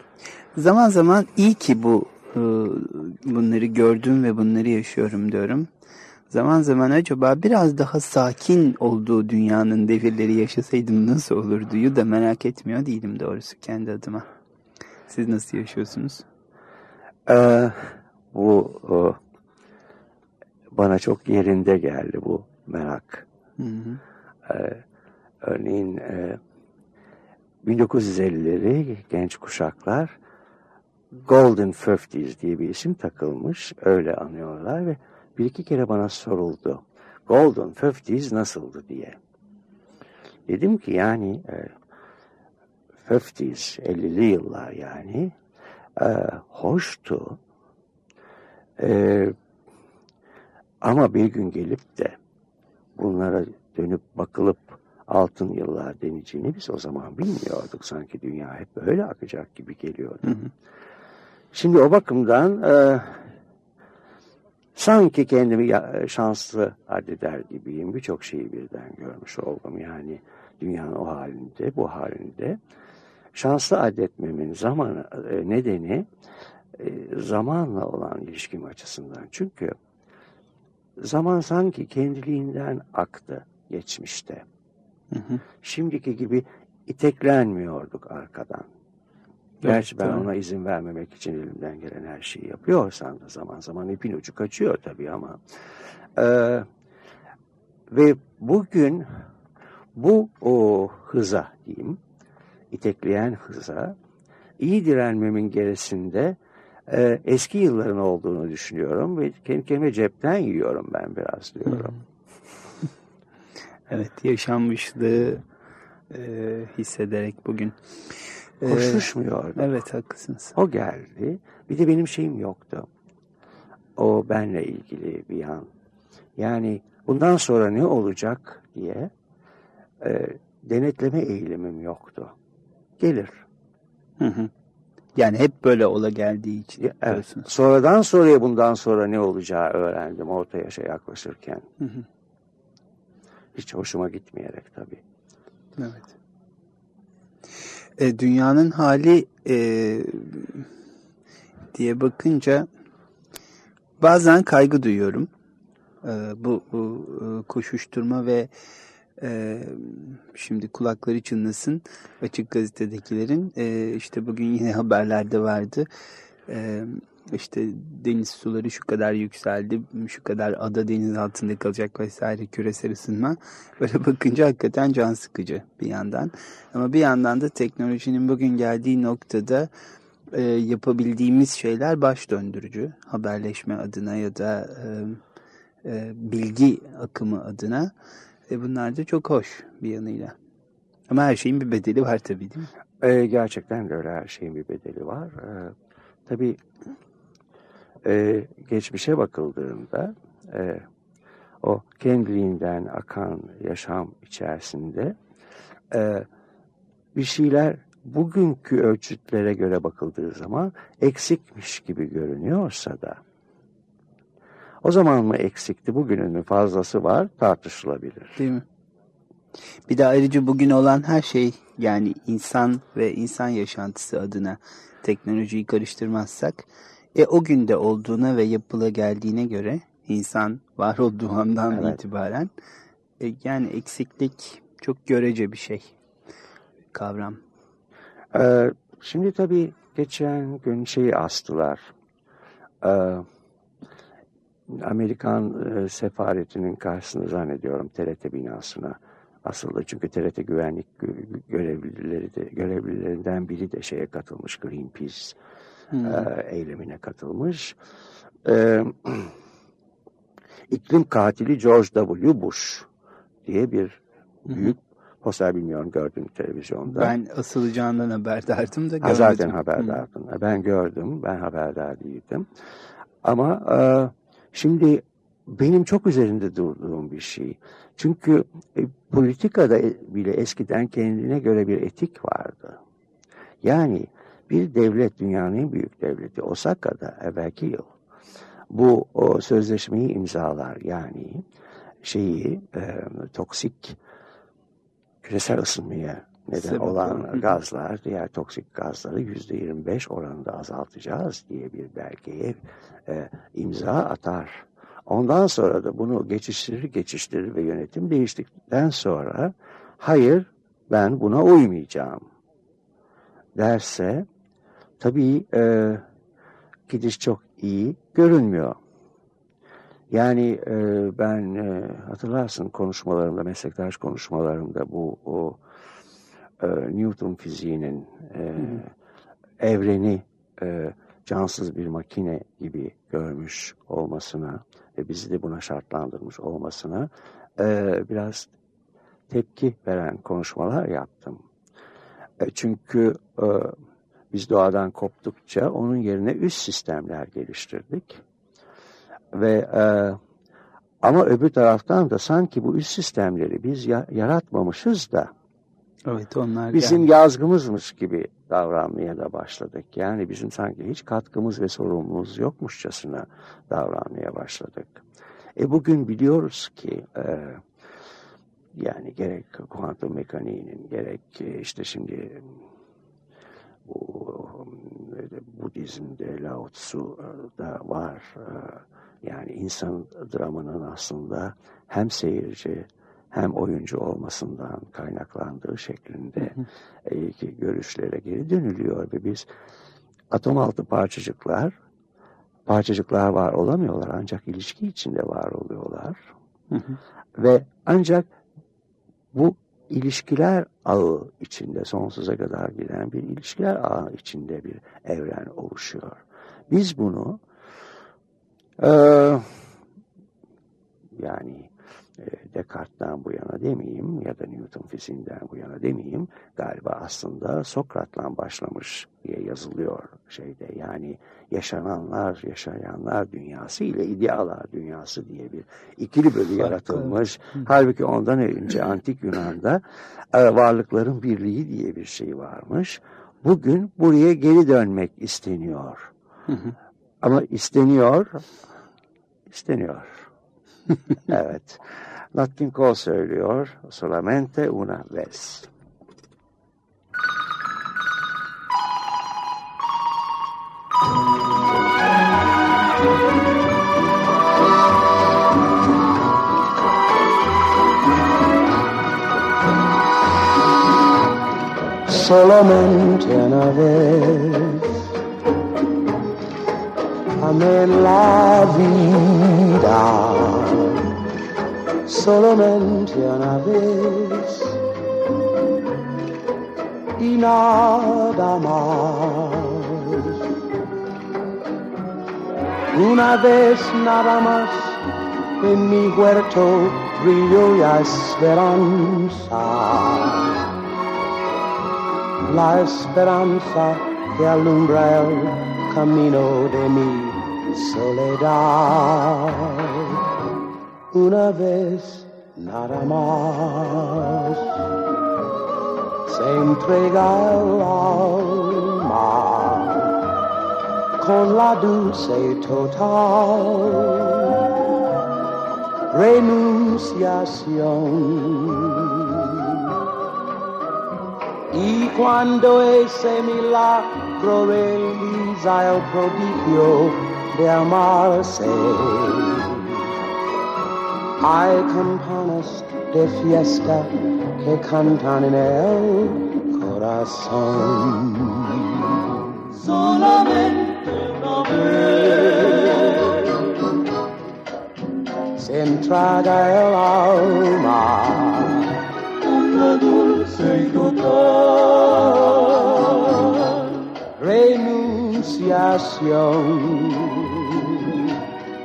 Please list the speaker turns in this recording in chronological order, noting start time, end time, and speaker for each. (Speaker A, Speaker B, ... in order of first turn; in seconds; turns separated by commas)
Speaker A: 0.5-5.7, Speaker A: 6.3-14.3, Speaker A: 15.1-16.2, Speaker B: 17.3-19.2, Speaker B: 20.7-23.2, Speaker A: 23.6-24.0, Speaker B: 24.4-24.8, Speaker B: 25.4-26.4, Speaker B: 27.6-30.1, Speaker B: 31.1-39.2, Speaker B: 40.5-41.8, Speaker B: 43.0-45.4, Speaker B: 46.0-47.4, Speaker B: 48.8-49.4, Speaker B: 50.8-52.2, Speaker B: 53.0-60.4, Speaker A: 60.2-60.5, Speaker B: 61.5-63.2, Speaker B: 64.7-72.6, Speaker B: 73.3-76.1, Speaker B: 76.7-79.8, Speaker B: 81.0-84.4, Speaker A: 85.1-85.4, Speaker B: 85.6-88.7, Speaker A: 89.6-90.2, Speaker B: 89.6-95.4, Speaker B: 96.2-96.7, Speaker B: 97.9-99.1, Speaker B: 99.9-102.0, Speaker B: 102.7-104.0, Speaker B: 104.6-111.9, Speaker A: 111.7-112.0, Speaker A: 113.9-115.4, Speaker A: 116.1-117.8, Speaker A: 118.6-120.5, Speaker B: 118.6-119.8, Speaker B: 120.5-122.9, Speaker B: 124.0-125.7, Speaker B: 126.4-129.1, Speaker B: 130.0-132.3, Speaker B: 133.0-133.4, Speaker A: 134.2-134.5, Speaker A: 135.2-137.5, Speaker B: 136.8-141.7, Speaker A: 141.8-142.0, Speaker B: 143.5-145.0, Speaker A: 145.8-146.1, Speaker A: 148.0-150.7, Speaker A: 151.7-152.7, Speaker A: 154.0-155.3, Speaker A: 156.0-158.5, Speaker A: 159.2-165.9, Speaker A: 166.5-179.7, Speaker A: 180.3-185.2, Speaker A: 185.8-187.9, Speaker A: 188.5-190.3, Speaker A: 191.1-192.7, Speaker B: 193.0-195.7, Speaker B: 196.3-196.6, Speaker B: 198.0-200.8, Speaker B: 201.6-205.2, Speaker B: 205.9-206.3, Speaker B: 207.1-213.2, Speaker B: 214.8-218.4, Speaker A: 218.4-218.6, Speaker A: 219.9-232.5, Speaker B: 231.7-232.0, Speaker A: 233.2-235.9, Speaker A: 236.9-237.4, Speaker B: 238.3-241.9, Speaker B: 242.8-243.3, Speaker B: 244.7-255.4, Speaker A: 255.9-256.2, Speaker B: 256.0-257.8, Speaker B: 258.4-259.3, Speaker B: 260.7-262.9, Speaker B: 263.4-267.2, Speaker A: 266.9-270.0, Speaker B: 269.0-272.5, Speaker B: 273.2-282.8, Speaker B: 283.6-287.9, Speaker B: 288.7-291.4, Speaker B: 292.0-294.0, Speaker B: 295.2-312.2, Speaker A: 296.6-297.5, Speaker B: 313.6-314.3, Speaker B: 315.0-316.0, Speaker B: 316.9-318.8, Speaker B: 320.1-325.6, Speaker B: 326.6-328.9, Speaker B: 329.6-338.5, Speaker B: 339.3-341.4, Speaker B: 342.4-343.8, Speaker B: 344.3-348.2, Speaker B: 349.3-350.2, Speaker B: 351.0-355.3, Speaker A: 356.1-357.1, Speaker B: 356.7-365.0, Speaker B: 365.6-367.6, Speaker B: 368.7-372.5, Speaker B: 373.9-389.5, Speaker A: 386.4-386.6, Speaker B: 390.3-391.7, Speaker B: 392.7-396.2, Speaker A: 396.7-397.0, Speaker B: 397.4-398.3, Speaker B: 399.3-407.4, Speaker B: 408.8-409.6, Speaker B: 411.2-429.8, Speaker A: 426.6-427.6, Speaker B: 430.3-436.1, Speaker A: 436.5-436.7, Speaker B: 437.2-438.4, Speaker B: 439.5-440.3, Speaker B: 441.3-445.7, Speaker C: 462.1-464.9, Speaker C: 467.4-471.1, Speaker C: 472.1-474.8, Speaker C: 477.2-480.4, Speaker C: 482.9-485.1, Speaker C: 485.6-490.6, Speaker C: 492.4-500.2, Speaker C: 501.1-504.6, Speaker C: 506.3-510.1, Speaker C: 511.2-514.5, Speaker C: 516.1-519.3, Speaker C: 521.7-530.0, Speaker C: 531.4-539.1, Speaker C: 539.7-543.8, Speaker C: 545.5-558.3